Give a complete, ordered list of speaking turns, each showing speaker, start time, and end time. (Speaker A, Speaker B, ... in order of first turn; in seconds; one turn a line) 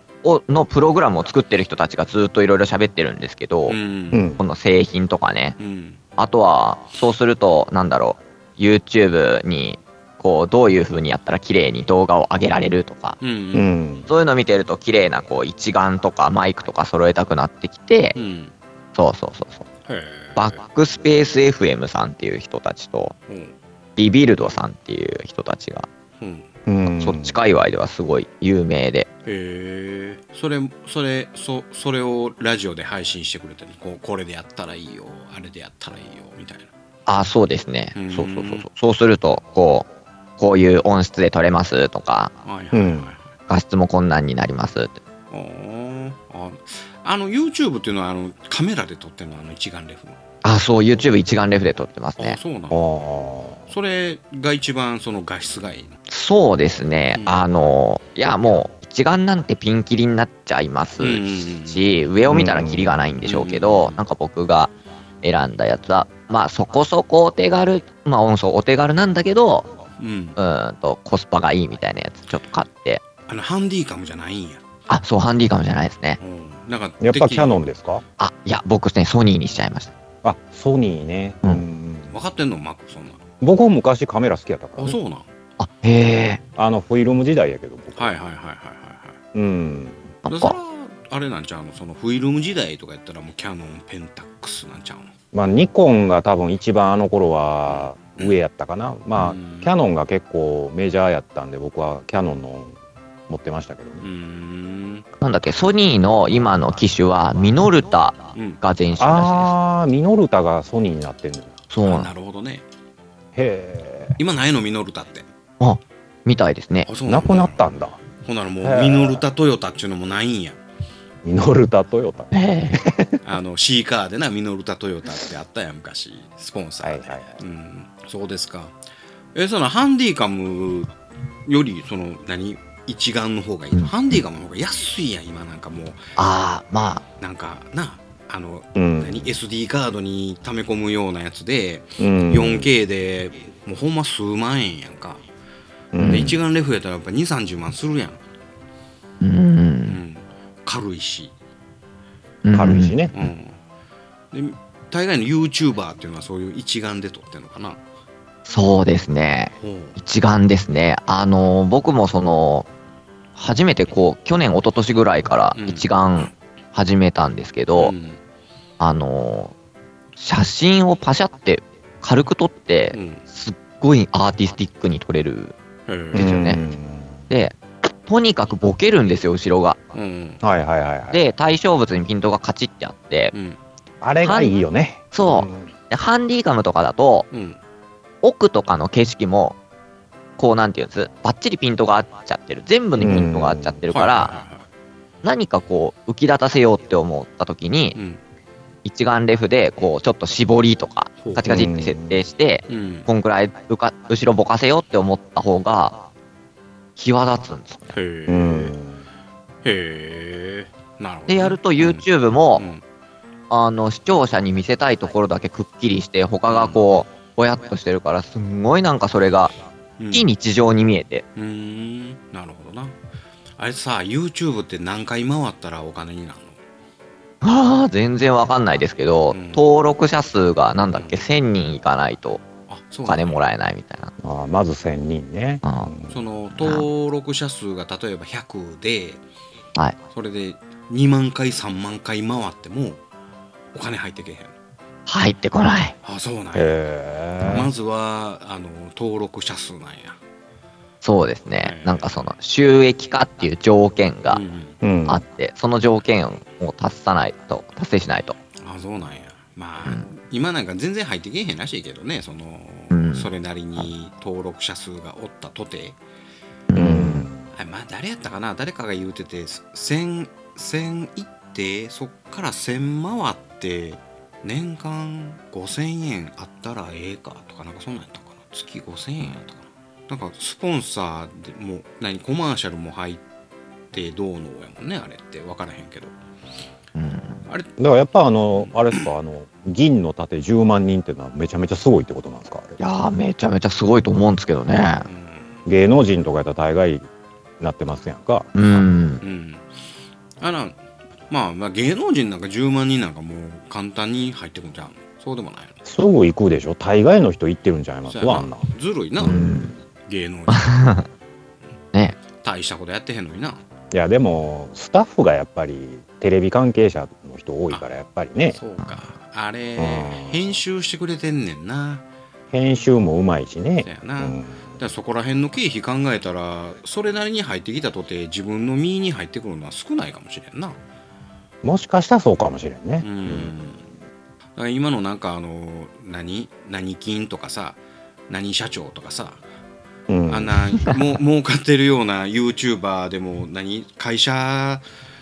Speaker A: 0.2-3.8
Speaker B: 3.7-4.3
Speaker C: 4.1-4.4
Speaker A: 4.4-5.6
Speaker B: 5.6-6.0
Speaker A: 6.2-13.2
Speaker B: 13.2-13.7
Speaker C: 13.5-14.1
Speaker A: 14.1-18.2
Speaker B: 18.1-18.5
Speaker A: 18.9-19.7
Speaker B: 19.9-20.6
Speaker A: 20.4-23.1
Speaker B: 23.3-23.6
Speaker A: 24.0-25.9
Speaker B: 26.2-26.5
Speaker C: 26.7-27.4
Speaker A: 27.0-29.1
Speaker B: 29.2-36.7
Speaker A: 37.1-42.3
Speaker B: 38.0-38.7
Speaker B: 42.4-43.3
Speaker C: 42.7-43.1
Speaker A: 43.5-45.0
Speaker B: 45.3-50.2
Speaker A: 50.4-52.4
Speaker B: 52.2-52.8
Speaker C: 52.7-53.7
Speaker B: 53.7-55.9
Speaker A: 56.1-64.7
Speaker B: 61.0-61.9
Speaker C: 62.3-63.0
Speaker B: 63.2-64.0
Speaker A: 65.2-69.7
Speaker B: 70.0-70.4
Speaker A: 70.4-73.0
Speaker B: 73.3-74.6
Speaker A: 74.9-76.2
Speaker B: 76.2-77.6
Speaker C: 77.0-78.0
Speaker A: 78.2-79.9
Speaker C: 80.2-82.1
Speaker B: 82.1-83.2
Speaker C: 83.4-85.0
Speaker B: 84.8-85.3
Speaker A: 85.6-86.4
Speaker C: 86.6-88.2
Speaker B: 88.0-89.2
Speaker C: 89.3-90.1
Speaker A: 90.3-90.6
Speaker B: 90.3-95.1
Speaker C: 95.3-102.8
Speaker B: 97.7-98.4
Speaker B: 99.2-99.7
Speaker C: 103.3-104.0
Speaker B: 104.0-105.0
Speaker A: 105.2-109.5
Speaker B: 108.3-108.6
Speaker C: 109.0-111.6
Speaker A: 111.7-112.1
Speaker B: 111.8-112.6
Speaker C: 113.3-114.2
Speaker B: 114.2-115.3
Speaker A: 115.6-116.9
Speaker B: 116.9-117.7
Speaker C: 117.0-118.0
Speaker B: 118.2-120.6
Speaker C: 118.6-119.2
Speaker C: 121.2-123.2
Speaker A: 122.3-122.8
Speaker B: 123.2-128.7
Speaker C: 126.8-127.3
Speaker B: 129.3-130.9
Speaker B: 131.5-136.0
Speaker A: 136.2-137.0
Speaker B: 137.2-145.2
Speaker C: 138.8-139.3
Speaker C: 142.0-142.7
Speaker C: 145.9-146.4
Speaker A: 146.0-146.3
Speaker B: 146.0-148.2
Speaker A: 149.2-150.0
Speaker B: 149.9-151.3
Speaker A: 152.4-153.0
Speaker C: 152.5-153.2
Speaker B: 153.1-153.6
Speaker B: 154.3-157.8
Speaker A: 158.5-162.7
Speaker B: 159.6-160.0
Speaker A: 163.4-167.9
Speaker B: 165.6-166.3
Speaker B: 167.8-168.2
Speaker A: 168.8-169.5
Speaker A: 170.2-175.5
Speaker B: 172.9-173.2
Speaker B: 175.9-176.3
Speaker A: 176.1-176.6
Speaker C: 176.1-177.2
Speaker A: 177.3-179.8
Speaker B: 179.9-180.4
Speaker C: 180.4-181.2
Speaker A: 181.1-183.3
Speaker B: 183.3-183.6
Speaker C: 184.0-185.7
Speaker A: 184.2-184.6
Speaker A: 185.1-187.3
Speaker B: 187.3-187.6
Speaker A: 188.2-189.6
Speaker A: 190.4-194.4
Speaker C: 193.0-193.8
Speaker B: 193.9-194.7
Speaker A: 195.2-198.0
Speaker B: 197.9-198.2
Speaker A: 198.8-206.0
Speaker B: 201.2-201.7
Speaker C: 201.5-202.2
Speaker B: 202.7-203.1
Speaker A: 207.0-207.9
Speaker B: 207.9-208.8
Speaker C: 208.3-209.0
Speaker B: 209.6-212.1
Speaker A: 211.3-212.7
Speaker B: 212.6-212.8
Speaker A: 213.5-219.5
Speaker B: 216.5-216.8
Speaker B: 220.0-220.3
Speaker A: 220.1-221.2
Speaker B: 221.4-223.0
Speaker B: 223.6-226.6
Speaker A: 227.4-232.4
Speaker B: 229.3-229.6
Speaker B: 230.9-231.2
Speaker B: 232.7-233.4
Speaker A: 233.1-234.1
Speaker C: 234.2-236.2
Speaker A: 235.6-235.9
Speaker B: 236.1-239.2
Speaker A: 236.6-236.9
Speaker B: 240.1-243.0
Speaker B: 243.7-244.5
Speaker A: 245.1-246.0
Speaker B: 246.0-246.8
Speaker C: 246.5-247.7
Speaker B: 247.4-250.2
Speaker A: 251.0-254.4
Speaker B: 251.6-252.1
Speaker B: 254.3-254.8
Speaker C: 254.8-255.2
Speaker A: 255.1-258.4
Speaker B: 258.6-266.0
Speaker A: 262.9-263.8
Speaker A: 266.7-267.3
Speaker C: 266.8-267.5
Speaker B: 267.5-283.2
Speaker B: 283.9-286.1
Speaker A: 287.0-287.4
Speaker C: 287.8-292.8
Speaker B: 288.5-289.1
Speaker A: 292.8-295.1
Speaker B: 295.1-295.6
Speaker C: 295.7-297.1
Speaker C: 297.6-298.5
Speaker A: 298.6-299.2
Speaker B: 299.2-299.6
Speaker B: 300.4-300.8
Speaker B: 301.3-305.8
Speaker C: 305.9-308.7
Speaker B: 308.1-309.5
Speaker C: 309.2-309.7
Speaker A: 309.2-309.7
Speaker B: 310.1-310.7
Speaker A: 310.5-311.1
Speaker B: 312.4-313.6
Speaker C: 313.9-318.6
Speaker B: 318.5-322.0
Speaker C: 319.8-320.6
Speaker C: 322.5-324.8
Speaker B: 323.8-330.8
Speaker C: 331.6-333.5
Speaker B: 333.0-333.8
Speaker B: 334.6-339.4
Speaker C: 340.1-340.6
Speaker B: 340.3-344.8